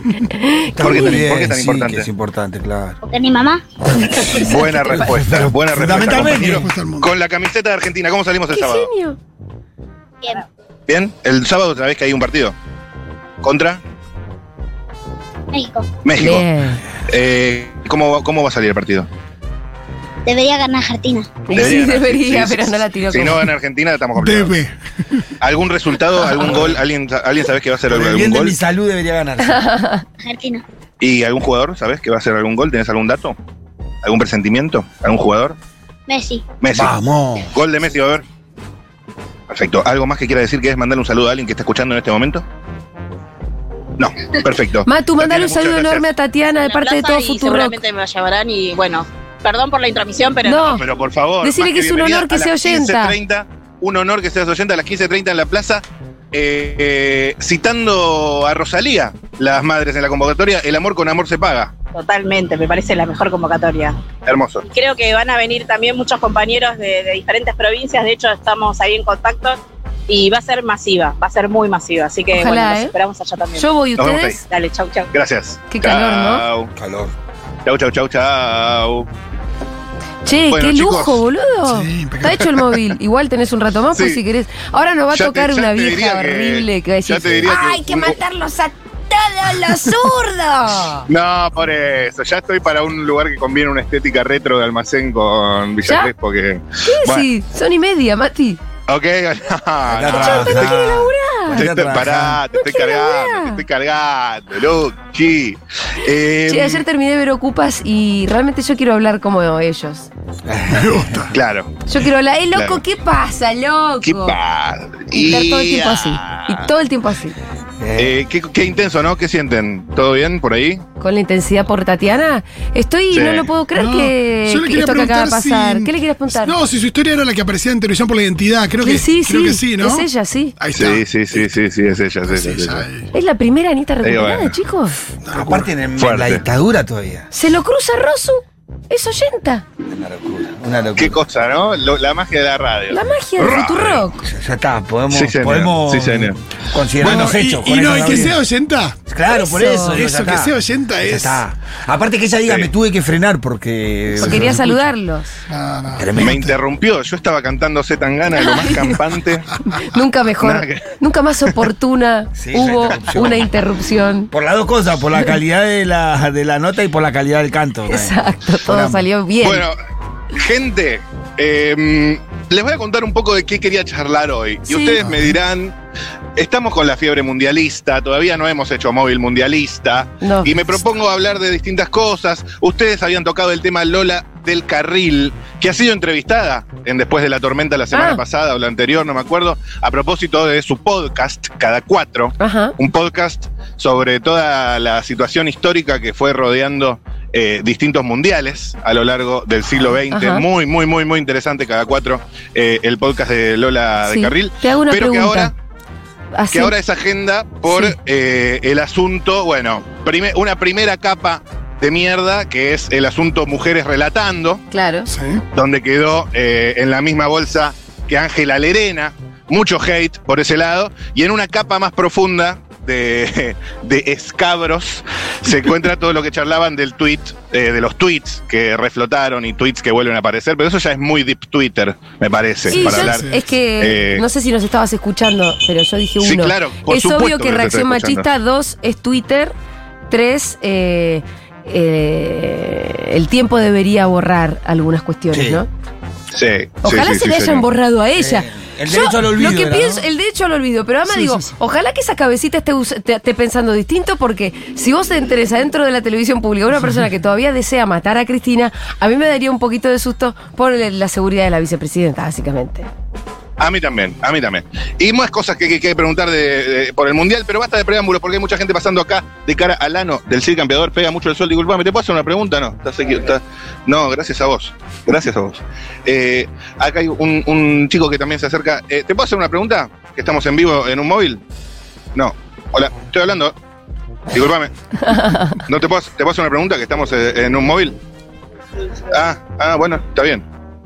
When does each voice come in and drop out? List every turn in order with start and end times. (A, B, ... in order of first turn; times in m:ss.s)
0:00.2-0:01.1 A
0:00.8-0:03.0 B
0:00.8-0:02.1 C
0:03.0-0:03.6 D
0:04.2-0:06.7 B
0:04.3-0:08.9 C
0:04.3-0:05.0 A
0:05.9-0:07.1 E
0:08.5-0:09.2 A
0:10.9-0:12.5 C
0:13.4-0:13.8 C
0:15.5-0:15.9 D
0:16.0-0:16.5 C
0:16.2-0:16.8 A
0:17.1-0:19.1 C
0:20.2-0:21.5 D
0:21.5-0:23.5 A
0:21.5-0:24.5 C
0:24.2-0:24.7 E
0:25.4-0:28.6 C
0:27.9-0:29.6 B
0:29.4-0:30.0 A
0:30.2-0:30.6 D
0:31.0-0:33.4 C
0:34.0-0:35.6 C
0:36.1-0:36.5 D
0:36.6-0:36.9 C
0:36.7-0:37.5 B
0:37.5-0:38.2 C
0:39.5-0:42.4 C
0:44.0-0:46.1 C
0:44.8-0:47.7 A
0:46.5-0:50.8 F
0:50.4-0:50.8 A
0:50.7-1:01.7 C
0:51.4-0:53.2 A
1:01.9-1:04.0 F
1:04.2-1:04.6 C
1:04.6-1:13.7 F
1:12.3-1:12.9 A
1:13.6-1:14.4 A
1:14.0-1:14.4 C
1:14.5-1:15.1 F
1:15.1-1:16.7 C
1:15.7-1:16.5 A
1:16.8-1:17.1 B
1:17.6-1:19.1 C
1:20.2-1:31.1 A
1:20.5-1:21.2 C
1:21.6-1:22.6 E
1:23.9-1:24.2 C
1:25.1-1:28.2 C
1:31.1-1:37.3 C
1:35.8-1:36.1 A
1:36.8-1:38.6 A
1:38.9-1:40.9 C
1:39.8-1:42.4 B
1:40.1-1:41.6 A
1:41.5-1:46.8 C
1:42.5-1:43.6 A
1:46.5-1:50.1 A
1:50.4-1:51.2 B
1:50.7-1:51.3 E
1:51.3-1:51.7 C
1:51.9-1:54.4 A
1:52.5-1:52.8 C
1:54.0-1:56.7 C
1:55.1-1:57.3 A
1:57.8-1:58.2 B
1:58.0-2:00.8 C
2:01.0-2:06.5 A
2:03.1-2:03.5 C
2:03.7-2:11.5 E
2:08.8-2:10.5 A
2:10.7-2:12.8 C
2:12.2-2:13.1 E
2:13.1-2:14.9 A
2:14.0-2:14.6 C
2:15.2-2:15.7 E
2:15.3-2:17.3 B
2:16.0-2:16.4 C
2:17.3-2:19.6 A
2:19.8-2:21.2 B
2:21.0-2:24.1 C
2:22.9-2:24.2 A
2:24.2-2:28.4 B
2:25.1-2:26.4 C
2:27.0-2:29.0 E
2:29.1-2:34.8 B
2:29.3-2:30.0 A
2:29.8-2:31.4 E
2:34.2-2:35.3 A
2:35.5-2:36.6 E
2:36.0-2:36.4 B
2:36.2-2:39.5 C
2:38.3-2:39.0 A
2:39.7-2:44.3 A
2:40.4-2:40.9 C
2:42.4-2:43.5 B
2:44.3-2:49.0 B
2:47.9-2:49.6 A
2:49.4-2:49.7 C
2:50.3-2:55.7 C
2:54.7-2:55.0 A
2:55.0-2:55.3 E
2:56.4-3:25.5 C
3:00.2-3:00.6 A
3:07.9-3:08.2 A
3:12.4-3:12.7 A
3:20.1-3:20.4 A
3:24.0-3:25.5 A
3:26.4-3:26.7 A
3:26.5-3:34.6 C
3:27.7-3:28.0 A
3:34.7-3:35.1 A
3:35.1-3:35.4 E
3:35.5-3:54.2 C
3:52.7-3:59.5 A
3:52.7-3:53.3 E
3:56.2-3:58.3 C
4:00.1-4:05.7 A
4:05.3-4:05.6 B
4:06.3-4:07.6 C
4:06.8-4:22.9 A
4:08.2-4:10.0 B
4:11.1-4:11.5 E
4:23.6-4:41.4 C
4:42.1-4:43.5 C
4:44.3-4:44.7 C
4:45.1-4:45.6 A
4:45.5-4:48.0 C
4:49.1-4:50.4 C